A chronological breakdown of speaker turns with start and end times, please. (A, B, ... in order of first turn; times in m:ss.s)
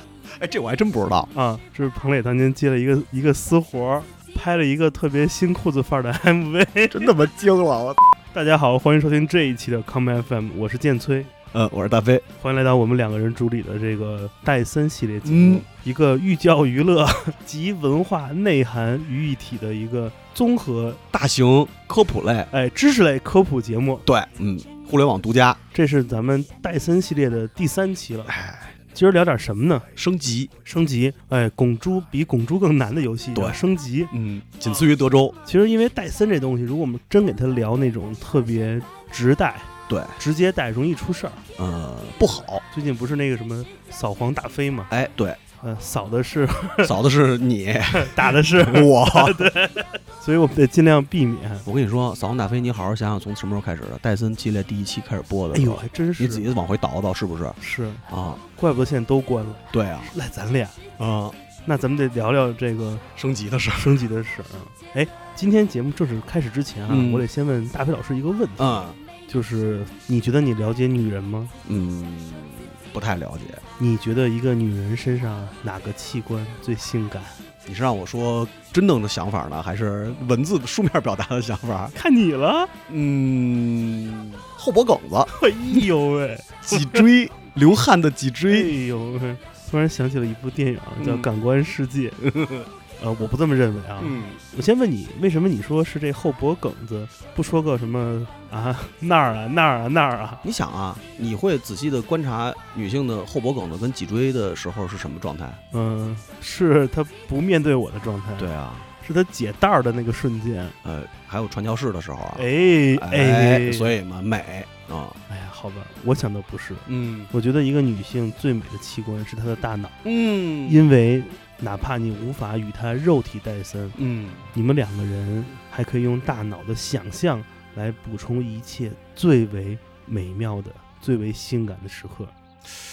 0:00.4-0:01.3 A
0:01.3-0:07.1 B
0:06.9-0:08.1 A
0:08.3-0:11.3 B
0:11.5-0:12.2 A
0:12.4-0:21.0 B
0:15.2-0:15.7 A
0:21.1-0:22.5 A
0:22.5-0:24.1 B
0:24.0-0:25.6 A
0:25.7-0:28.3 B
0:28.3-0:28.8 A
0:28.9-0:29.9 B
0:30.0-0:30.5 A
0:30.6-0:34.1 B
0:33.3-0:35.4 A
0:35.4-0:41.4 B
0:39.9-0:40.2 A
0:41.6-0:42.6 A
0:42.7-0:44.9 B
0:44.9-0:45.4 A
0:45.6-0:46.9 B
0:46.8-0:49.5 A
0:47.9-0:51.7 B
0:51.6-0:57.6 A
0:55.5-0:56.4 B
0:57.6-0:58.0 B
0:58.1-0:58.4 A
0:58.6-1:00.8 B
0:59.7-1:00.1 A
1:01.0-1:01.4 A
1:01.6-1:03.0 B
1:03.1-1:04.0 A
1:03.8-1:11.6 B
1:06.9-1:07.3 A
1:08.6-1:09.0 A
1:11.6-1:13.6 A
1:13.8-1:17.4 B
1:17.6-1:21.9 A
1:21.9-1:22.7 B
1:22.9-1:25.9 A
1:25.3-1:27.1 B
1:26.6-1:28.7 A
1:28.5-1:32.2 B
1:31.0-1:31.3 A
1:32.2-1:32.7 A
1:33.0-1:40.4 B
1:34.0-1:34.4 A
1:40.4-1:45.6 A
1:45.7-1:48.5 B
1:48.4-1:48.9 A
1:49.0-1:50.8 B
1:50.8-1:55.2 A
1:52.4-1:53.9 B
1:55.3-2:00.0 B
1:56.9-1:57.3 A
2:00.0-2:00.8 A
2:00.6-2:04.0 B
2:04.0-2:04.5 A
2:04.5-2:12.3 B